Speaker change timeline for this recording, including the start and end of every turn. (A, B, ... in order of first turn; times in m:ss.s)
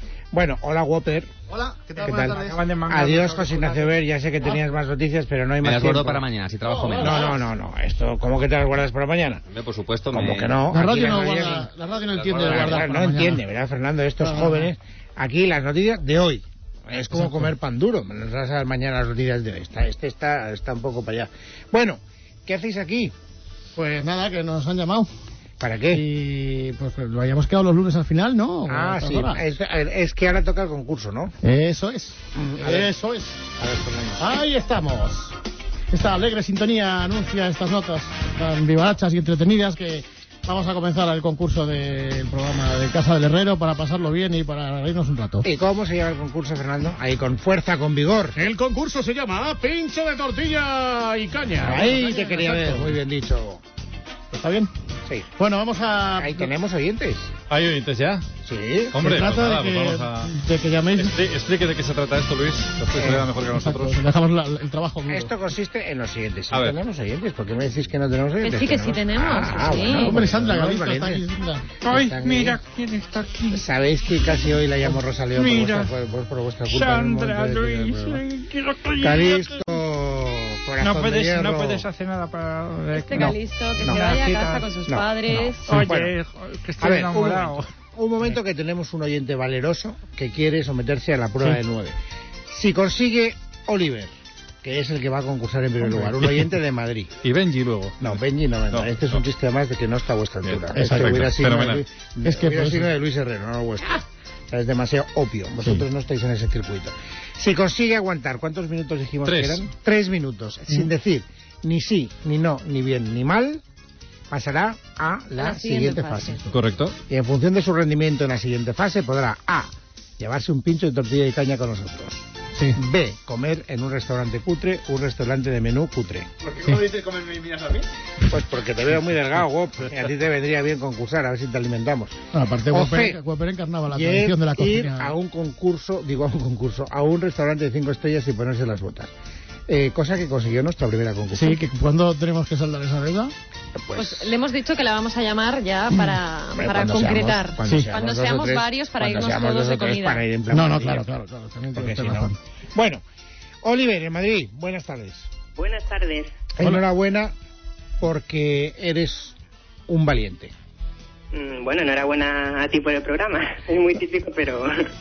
0:00.3-0:01.3 A
0:01.9-0:02.2 B
0:02.0-0:03.8 C
0:02.0-0:06.3 A
0:05.6-0:07.2 D
0:06.7-0:07.2 B
0:06.9-0:09.4 A
0:09.5-0:10.6 D
0:10.0-0:11.7 A
0:10.7-0:13.4 B
0:12.2-0:12.7 D
0:12.2-0:23.1 A
0:14.2-0:14.7 B
0:17.2-0:17.5 B
0:23.8-0:25.1 B
0:25.6-0:26.0 A
0:25.9-0:29.4 B
0:28.7-0:31.3 A
0:31.4-0:33.5 B
0:32.3-0:32.9 A
0:33.6-0:34.3 A
0:34.2-0:35.4 B
0:35.9-0:45.5 B
0:45.4-0:48.4 A
0:48.3-0:53.0 B
0:51.6-0:53.6 A
0:54.3-0:54.7 B
0:55.4-0:56.5 B
0:56.2-0:57.3 A
0:57.5-0:58.2 E
0:58.4-0:59.0 A
0:58.9-1:00.3 E
0:59.0-1:01.2 B
1:01.0-1:04.0 E
1:03.0-1:03.3 A
1:03.5-1:05.3 B
1:05.1-1:11.2 A
1:08.4-1:10.2 F
1:09.9-1:11.7 B
1:11.8-1:12.6 A
1:11.8-1:13.6 C
1:13.5-1:18.2 A
1:15.3-1:15.9 C
1:16.7-1:19.7 C
1:19.0-1:21.8 A
1:20.8-1:24.7 C
1:22.9-1:25.6 F
1:23.1-1:24.2 A
1:24.9-1:26.1 A
1:25.6-1:27.7 C
1:26.8-1:32.0 A
1:32.5-1:34.1 A
1:34.6-1:37.1 A
1:35.8-1:36.3 B
1:37.2-1:38.2 E
1:38.0-1:53.6 A
1:38.7-1:39.0 E
1:40.4-1:41.8 E
1:40.7-1:41.2 B
1:42.2-1:42.9 B
1:49.2-1:49.6 E
1:54.3-1:56.4 A
1:55.4-1:56.4 F
1:56.5-1:56.9 E
1:57.1-2:02.2 A
2:02.8-2:06.3 A
2:06.6-2:07.8 E
2:06.6-2:07.0 B
2:08.3-2:12.2 A
2:12.3-2:15.1 B
2:12.7-2:13.2 A
2:13.9-2:19.1 A
2:19.7-2:21.6 A
2:21.3-2:23.3 B
2:23.7-2:24.3 A
2:23.9-2:30.2 F
2:26.5-2:31.1 A
2:30.5-2:32.4 B
2:31.7-2:33.0 A
2:33.6-2:35.3 A
2:35.6-2:36.3 G
2:36.5-2:37.3 A
2:38.0-2:39.4 A
2:39.9-2:40.5 A
2:41.3-2:44.9 G